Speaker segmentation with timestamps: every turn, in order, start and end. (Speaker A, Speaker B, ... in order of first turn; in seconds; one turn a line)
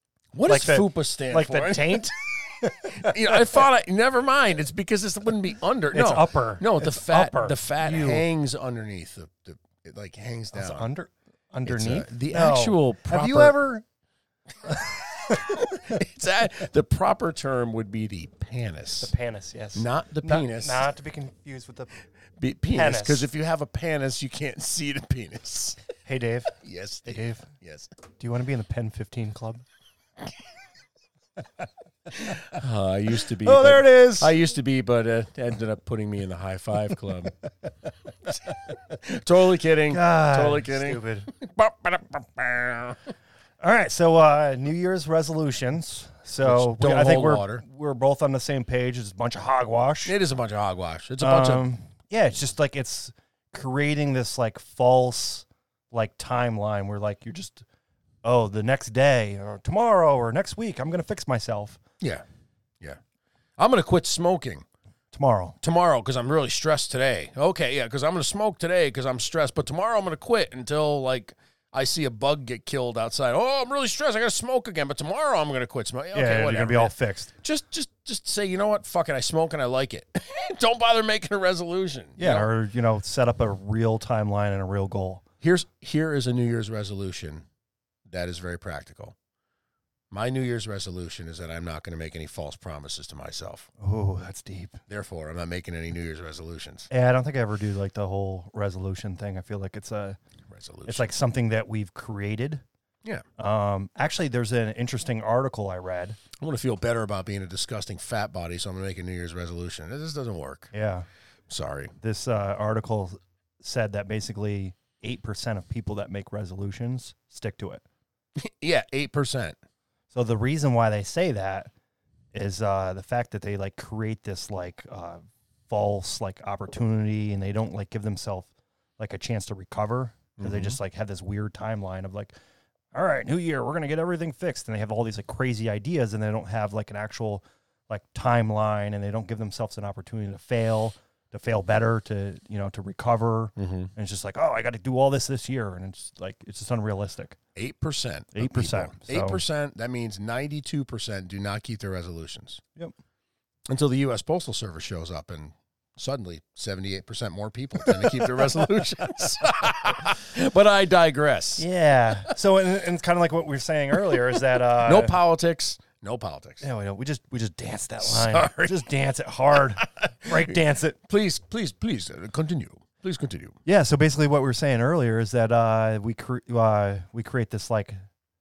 Speaker A: 0.3-2.1
Speaker B: 0.4-3.5
Speaker A: 2.9-10.9
Speaker B: 5.9-8.2
Speaker B: 10.5-13.8
Speaker A: 11.7-13.6
Speaker A: 15.2-19.1
Speaker B: 19.0-21.9
Speaker A: 19.7-20.9
Speaker A: 22.4-25.8
Speaker B: 22.7-23.3
Speaker B: 26.1-26.5
Speaker A: 26.6-27.9
Speaker B: 27.0-27.5
Speaker B: 28.2-29.6
Speaker A: 32.2-37.3
Speaker B: 33.4-34.3
Speaker A: 38.9-43.0
Speaker B: 39.9-41.3
Speaker B: 43.6-50.1
Speaker A: 46.4-47.6
Speaker A: 50.0-51.6
Speaker B: 51.2-57.6
Speaker B: 58.2-61.8
Speaker A: 63.6-64.6
Speaker B: 65.1-65.5
Speaker A: 65.6-82.5
Speaker B: 76.1-77.3
Speaker B: 82.2-85.2
Speaker A: 85.4-87.4
Speaker A: 88.1-89.1
Speaker A: 90.1-93.7
Speaker B: 93.8-94.8
Speaker A: 94.9-96.9
Speaker B: 96.9-100.2
Speaker A: 100.5-101.1
Speaker B: 100.8-102.6
Speaker B: 103.4-106.2
Speaker A: 106.4-110.7
Speaker B: 110.7-111.1
Speaker A: 111.5-111.9
Speaker B: 112.0-117.8
Speaker A: 118.4-119.6
Speaker B: 120.1-121.7
Speaker B: 122.3-132.3
Speaker A: 130.4-130.8
Speaker B: 132.9-147.3
Speaker A: 143.6-143.9
Speaker A: 147.6-152.6
Speaker B: 148.3-149.4
Speaker A: 153.7-161.7
Speaker B: 157.9-158.4
Speaker B: 161.6-165.2
Speaker A: 164.7-166.6
Speaker B: 166.6-171.0
Speaker A: 168.0-168.9
Speaker A: 169.8-173.6
Speaker B: 173.7-178.0